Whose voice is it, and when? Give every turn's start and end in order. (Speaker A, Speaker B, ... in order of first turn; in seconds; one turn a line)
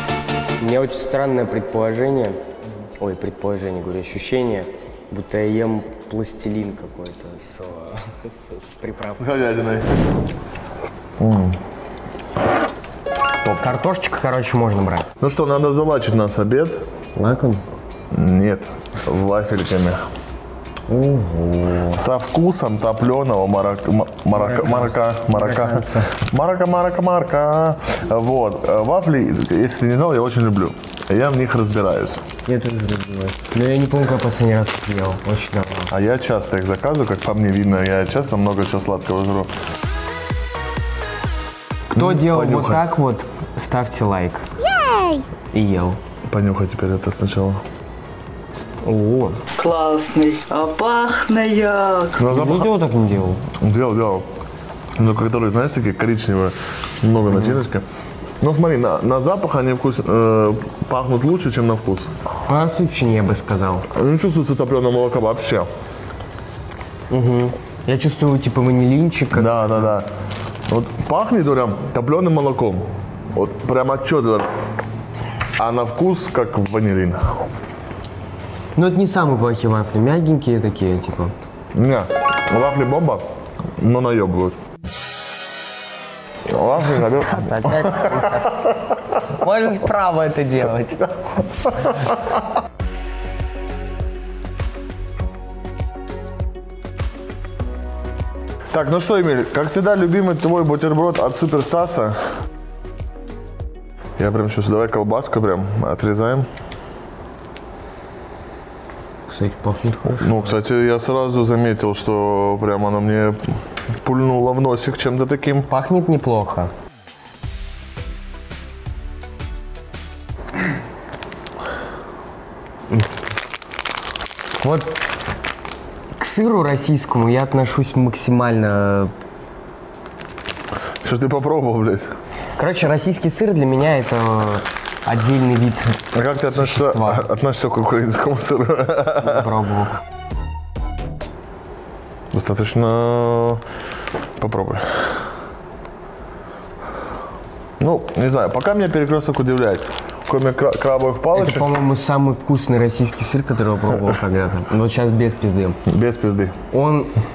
Speaker A: 0.6-2.4
Speaker A: 3.0-9.6
Speaker B: 9.2-9.9
Speaker B: 11.2-11.6
Speaker B: 13.4-13.7
Speaker A: 13.6-15.1
Speaker B: 15.2-16.8
Speaker A: 17.1-17.6
Speaker B: 18.1-20.0
Speaker A: 20.9-22.0
Speaker B: 21.9-32.2
Speaker A: 24.3-26.1
Speaker A: 32.5-35.9
Speaker B: 35.9-39.5
Speaker A: 41.9-44.4
Speaker B: 41.9-42.8
Speaker A: 45.0-46.0
Speaker B: 46.2-47.6
Speaker A: 48.8-49.4
Speaker C: 49.6-52.1
Speaker B: 52.2-52.7
Speaker A: 52.2-53.4
Speaker B: 53.6-54.2
Speaker B: 55.0-57.8
Speaker A: 57.3-57.6
Speaker B: 58.4-62.1
Speaker A: 62.5-63.9
Speaker B: 63.9-65.7
Speaker A: 67.1-70.0
Speaker B: 69.3-70.1
Speaker B: 70.7-74.5
Speaker B: 75.6-77.5
Speaker A: 78.7-81.3
Speaker B: 81.7-83.2
Speaker B: 83.8-84.5
Speaker B: 86.5-88.5
Speaker A: 86.9-88.7
Speaker A: 89.2-91.2
Speaker B: 98.7-102.3
Speaker B: 104.2-106.5
Speaker A: 109.3-110.5
Speaker B: 110.1-113.4
Speaker B: 114.0-115.7
Speaker A: 115.7-116.7
Speaker A: 124.6-125.0
Speaker A: 126.2-129.1
Speaker B: 131.0-132.1
Speaker A: 132.6-135.9
Speaker B: 136.1-139.5
Speaker A: 136.5-137.2
Speaker A: 139.2-139.9
Speaker B: 142.3-143.6
Speaker B: 144.4-145.1
Speaker B: 147.8-151.7
Speaker A: 151.3-155.8
Speaker B: 155.8-156.5
Speaker A: 156.7-157.1